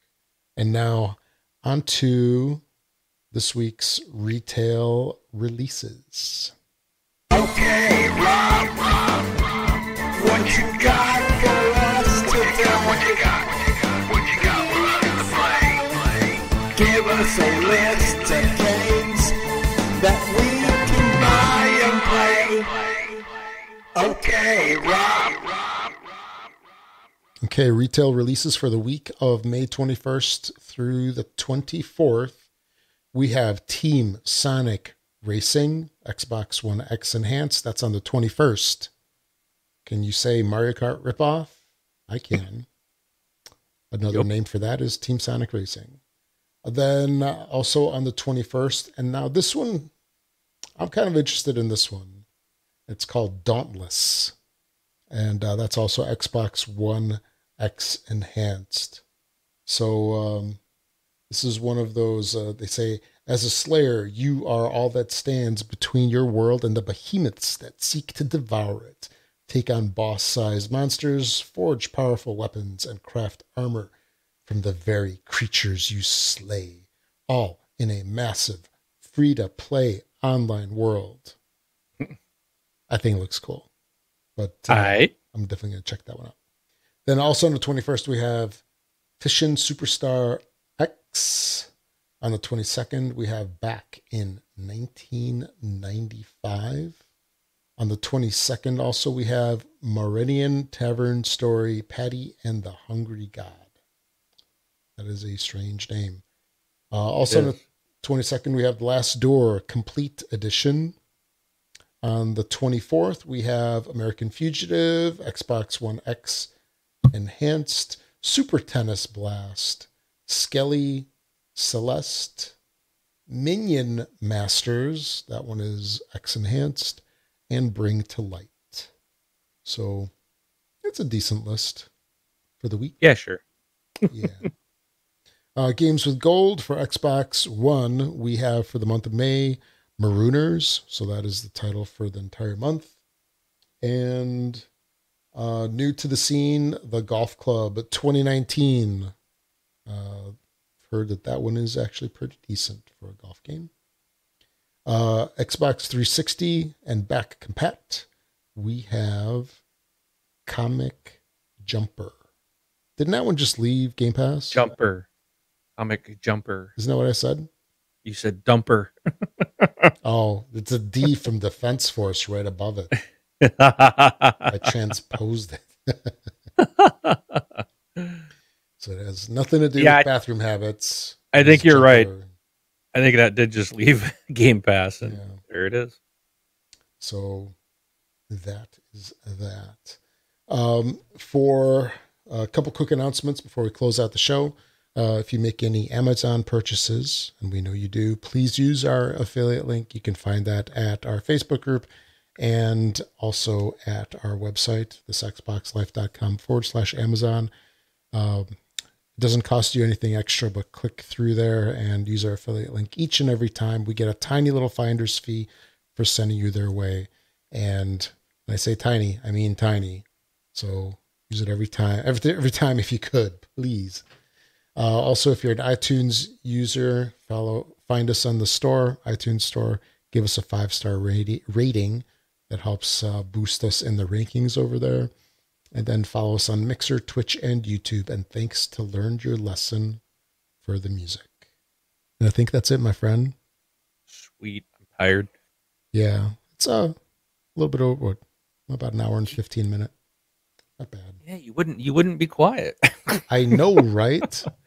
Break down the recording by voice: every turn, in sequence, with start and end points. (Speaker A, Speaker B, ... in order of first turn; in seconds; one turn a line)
Speaker A: 0.6-2.6
Speaker A: 3.3-6.5
Speaker B: 7.3-9.4
Speaker B: 10.1-19.3
Speaker B: 20.0-22.8
Speaker B: 23.9-25.9
Speaker A: 27.4-32.4
Speaker A: 33.1-38.9
Speaker A: 39.9-41.6
Speaker A: 42.1-42.7
Speaker A: 43.9-46.0
Speaker A: 46.6-49.9
Speaker A: 50.8-52.2
Speaker A: 52.9-54.4
Speaker A: 55.1-59.0
Speaker A: 59.7-60.6
Speaker A: 61.3-73.9
Speaker A: 74.5-81.4
Speaker A: 82.9-83.7
Speaker A: 84.4-86.4
Speaker C: 84.7-85.1
Speaker A: 87.1-88.6
Speaker A: 89.2-91.7
Speaker A: 92.2-97.0
Speaker A: 97.8-103.7
Speaker A: 105.0-106.2
Speaker A: 106.9-111.0
Speaker C: 107.3-107.6
Speaker A: 112.0-116.5
Speaker A: 117.1-122.5
Speaker A: 123.3-128.9
Speaker A: 129.7-130.1
Speaker A: 130.8-131.9
Speaker A: 132.6-133.0
Speaker C: 133.0-133.4
Speaker C: 134.0-134.5
Speaker A: 134.1-134.5
Speaker A: 135.6-142.9
Speaker A: 143.8-144.7
Speaker A: 145.3-149.1
Speaker A: 149.9-153.7
Speaker A: 154.9-159.6
Speaker A: 160.5-162.2
Speaker A: 163.0-164.7
Speaker C: 164.5-165.1
Speaker C: 165.8-166.7
Speaker A: 166.8-167.5
Speaker C: 168.1-169.9
Speaker A: 170.0-172.9
Speaker C: 172.9-174.7
Speaker A: 174.5-176.1
Speaker C: 176.6-178.2
Speaker A: 178.8-182.3
Speaker C: 179.8-180.1
Speaker C: 181.3-182.1
Speaker C: 182.9-185.9
Speaker A: 185.0-185.4
Speaker A: 187.0-187.6
Speaker A: 188.3-201.9
Speaker A: 202.4-207.5
Speaker A: 208.1-208.6
Speaker A: 209.2-224.1
Speaker A: 224.8-235.1
Speaker A: 235.7-240.0
Speaker A: 240.6-241.4
Speaker A: 242.2-243.3
Speaker C: 244.1-245.3
Speaker A: 245.9-247.0
Speaker A: 247.6-249.9
Speaker A: 250.8-251.2
Speaker C: 251.2-253.6
Speaker A: 253.3-254.5